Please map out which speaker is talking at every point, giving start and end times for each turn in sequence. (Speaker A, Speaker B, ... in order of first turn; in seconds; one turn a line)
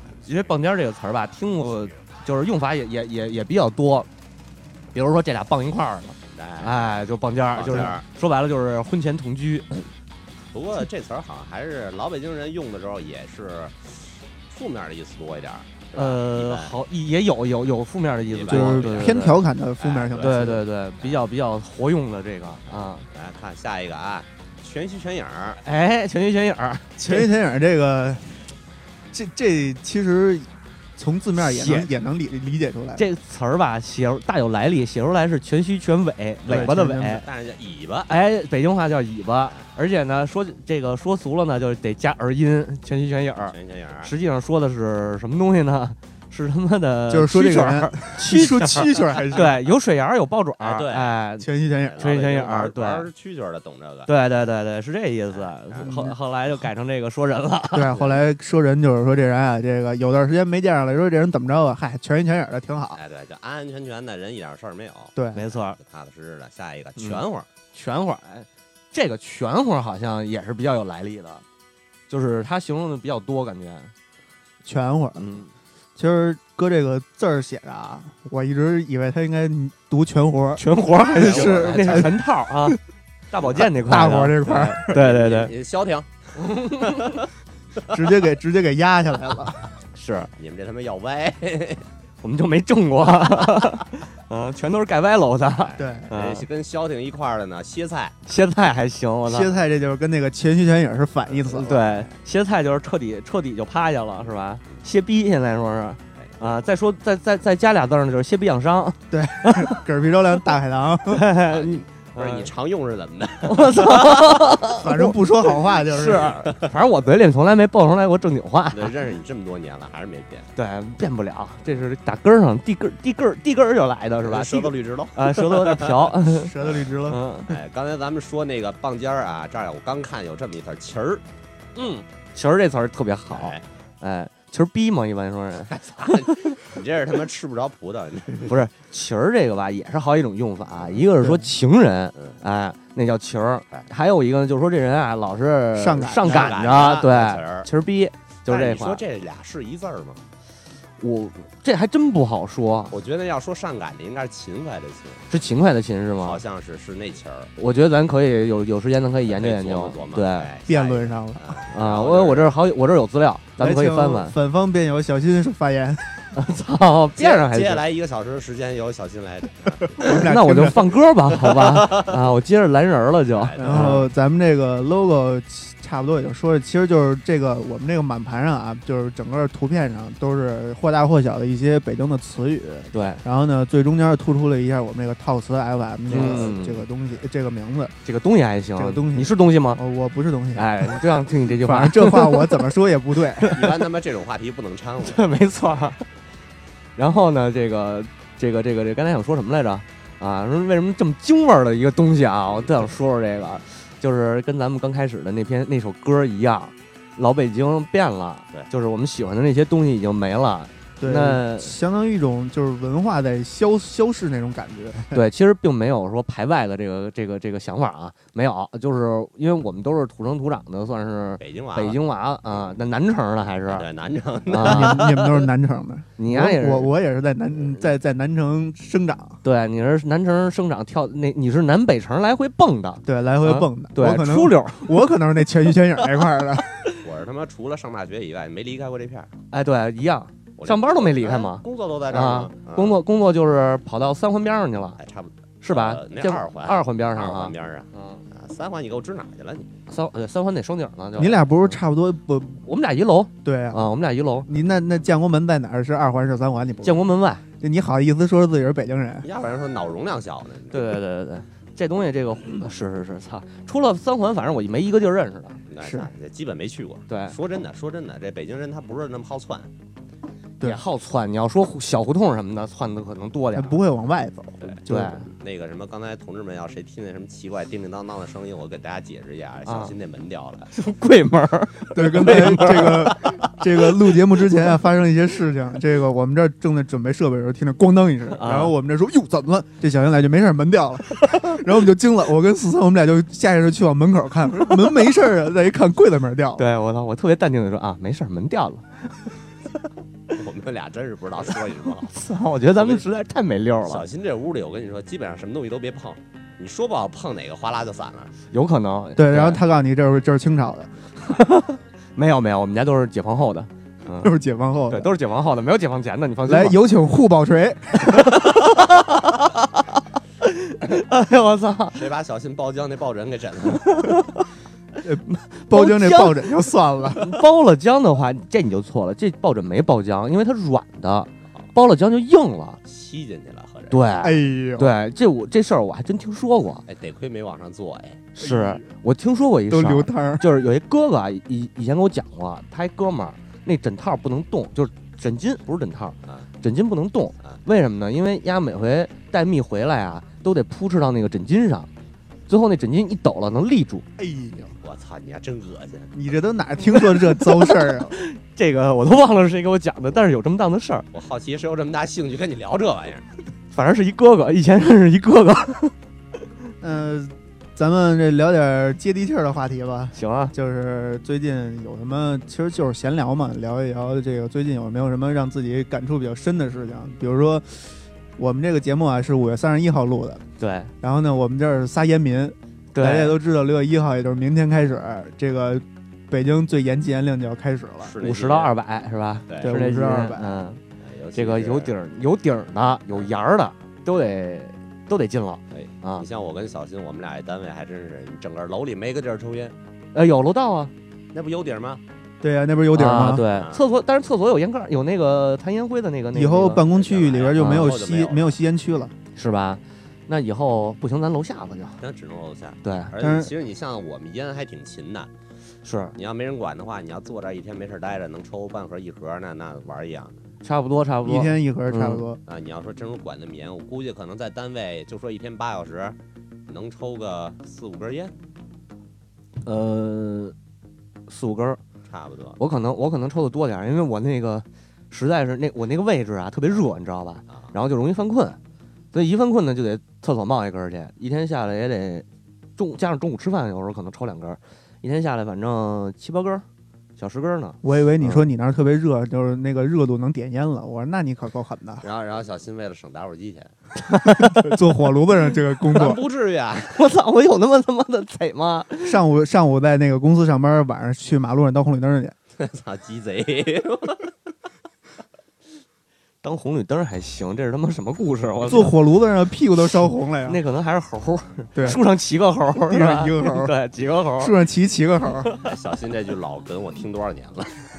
Speaker A: 0.2-4.1
Speaker A: 4.9-9.8
Speaker B: 6.3-6.8
Speaker B: 7.5-8.0
Speaker B: 10.5-16.7
Speaker A: 15.9-19.4
Speaker B: 18.3-19.1
Speaker C: 18.5-20.6
Speaker B: 19.8-21.2
Speaker A: 20.2-23.1
Speaker B: 22.7-25.6
Speaker A: 25.6-27.2
Speaker C: 27.0-28.3
Speaker C: 29.1-33.0
Speaker A: 31.4-31.9
Speaker A: 33.0-37.2
Speaker C: 36.5-37.2
Speaker B: 36.5-38.1
Speaker A: 38.1-53.1
Speaker B: 43.5-44.1
Speaker C: 47.1-49.5
Speaker B: 50.6-51.1
Speaker C: 51.4-52.1
Speaker B: 51.8-54.1
Speaker A: 54.1-58.1
Speaker B: 55.3-55.9
Speaker C: 55.8-56.1
Speaker C: 57.7-63.0
Speaker B: 62.9-67.5
Speaker A: 65.3-65.8
Speaker A: 67.7-71.4
Speaker A: 72.1-73.9
Speaker C: 74.6-75.2
Speaker A: 75.2-75.5
Speaker C: 76.0-82.8
Speaker A: 80.6-82.8
Speaker B: 81.1-82.1
Speaker A: 83.3-85.5
Speaker C: 83.6-85.0
Speaker B: 84.7-87.2
Speaker A: 86.4-87.2
Speaker C: 87.9-89.6
Speaker A: 90.0-90.3
Speaker B: 90.4-91.8
Speaker A: 92.2-96.5
Speaker B: 95.6-98.2
Speaker C: 95.8-96.1
Speaker A: 98.3-99.5
Speaker C: 99.3-101.8
Speaker B: 101.4-102.1
Speaker A: 101.5-109.8
Speaker C: 109.1-111.2
Speaker A: 111.1-112.5
Speaker B: 111.5-114.3
Speaker A: 113.5-115.2
Speaker C: 114.8-116.4
Speaker A: 115.9-118.9
Speaker B: 116.0-116.7
Speaker B: 118.7-120.5
Speaker A: 120.6-126.5
Speaker B: 124.2-126.1
Speaker C: 126.3-127.2
Speaker B: 126.6-126.9
Speaker A: 127.1-127.5
Speaker B: 127.5-131.2
Speaker A: 131.8-136.2
Speaker B: 133.3-133.6
Speaker B: 135.7-138.5
Speaker A: 138.4-149.0
Speaker C: 141.2-141.5
Speaker C: 145.8-146.5
Speaker B: 146.2-147.7
Speaker B: 148.5-150.2
Speaker A: 151.0-152.9
Speaker B: 152.9-155.3
Speaker A: 155.3-156.4
Speaker B: 156.2-157.5
Speaker A: 157.6-160.5
Speaker B: 159.2-162.5
Speaker C: 160.7-161.6
Speaker A: 161.7-164.3
Speaker C: 163.6-166.1
Speaker A: 166.3-167.8
Speaker B: 167.2-170.2
Speaker C: 170.0-170.9
Speaker A: 170.0-174.1
Speaker B: 171.5-172.2
Speaker B: 173.3-174.0
Speaker C: 173.6-187.9
Speaker A: 182.9-183.2
Speaker A: 186.1-186.8
Speaker A: 188.1-189.8
Speaker C: 188.8-193.6
Speaker A: 190.6-192.7
Speaker A: 193.4-193.8
Speaker B: 193.5-195.3
Speaker A: 195.0-196.0
Speaker A: 197.0-211.7
Speaker B: 202.5-202.9
Speaker C: 211.0-215.2
Speaker A: 215.1-223.9
Speaker B: 221.4-222.7
Speaker B: 223.7-225.5
Speaker A: 224.5-225.1
Speaker C: 224.5-229.4
Speaker A: 226.2-226.9
Speaker A: 229.4-235.0
Speaker C: 233.1-236.8
Speaker B: 237.0-239.3
Speaker A: 239.5-245.0
Speaker B: 240.6-243.0
Speaker B: 245.0-249.7
Speaker A: 245.6-248.2
Speaker A: 249.9-251.7
Speaker C: 251.2-252.6
Speaker A: 252.6-254.5
Speaker C: 253.4-253.8
Speaker C: 254.5-257.0
Speaker A: 256.8-257.4
Speaker C: 257.6-259.3
Speaker B: 259.2-260.9
Speaker A: 260.7-265.6
Speaker B: 265.7-269.7
Speaker C: 265.8-266.1
Speaker A: 267.1-267.4
Speaker A: 270.6-273.8
Speaker C: 273.6-275.3
Speaker A: 274.9-275.3
Speaker B: 275.3-280.7
Speaker A: 279.7-279.9
Speaker A: 280.7-283.5
Speaker C: 281.9-296.6
Speaker A: 288.3-288.8
Speaker A: 296.6-299.1
Speaker B: 300.3-302.1
Speaker A: 302.1-304.1
Speaker B: 302.8-303.1
Speaker B: 303.9-308.3
Speaker A: 308.5-309.6
Speaker C: 309.2-310.9
Speaker A: 311.3-314.3
Speaker C: 314.2-315.1
Speaker A: 314.9-316.8
Speaker C: 316.5-318.5
Speaker A: 318.0-322.0
Speaker B: 321.9-324.1
Speaker A: 323.9-324.2
Speaker C: 325.0-327.4
Speaker A: 325.3-326.5
Speaker A: 327.1-332.8
Speaker B: 332.9-334.1
Speaker A: 333.9-336.9
Speaker C: 334.2-334.9
Speaker B: 336.9-338.2
Speaker A: 338.4-351.9
Speaker C: 338.4-338.8
Speaker C: 339.7-340.5
Speaker A: 352.5-354.1
Speaker C: 354.2-354.8
Speaker B: 354.8-356.1
Speaker C: 356.1-358.1
Speaker A: 357.3-361.1
Speaker B: 361.1-363.3
Speaker A: 363.7-365.9
Speaker C: 366.8-380.4
Speaker A: 370.1-370.6
Speaker A: 380.6-380.9
Speaker C: 381.0-388.1
Speaker A: 382.9-383.4
Speaker B: 388.0-388.7
Speaker A: 388.2-390.8
Speaker B: 389.5-389.7
Speaker C: 389.6-390.5
Speaker B: 391.0-391.9
Speaker A: 391.4-396.2
Speaker B: 395.7-399.8
Speaker A: 400.1-400.9
Speaker B: 401.3-402.0
Speaker C: 402.4-403.4
Speaker A: 402.9-406.9
Speaker B: 403.5-403.8
Speaker C: 406.3-409.1
Speaker B: 406.9-408.6
Speaker A: 407.6-407.9
Speaker A: 409.4-412.0
Speaker B: 412.0-415.3
Speaker A: 412.8-413.1
Speaker C: 413.2-413.5
Speaker A: 415.8-416.1
Speaker B: 416.2-420.4
Speaker A: 420.6-422.2
Speaker C: 421.2-422.4
Speaker B: 422.5-426.2
Speaker B: 426.7-428.3
Speaker A: 429.6-430.6
Speaker A: 431.3-431.8
Speaker B: 432.1-432.6
Speaker A: 432.6-438.6
Speaker A: 439.1-442.3
Speaker A: 442.8-446.6
Speaker A: 447.2-448.5
Speaker C: 447.8-452.1
Speaker B: 452.0-453.7
Speaker A: 454.1-454.7
Speaker C: 454.4-456.2
Speaker B: 455.9-457.0
Speaker A: 456.9-459.2
Speaker C: 459.0-462.4
Speaker B: 462.6-464.3
Speaker A: 466.4-469.0
Speaker C: 468.6-470.6
Speaker A: 470.4-474.5
Speaker C: 471.8-472.0
Speaker C: 472.9-473.7
Speaker C: 474.4-475.5
Speaker B: 475.6-477.8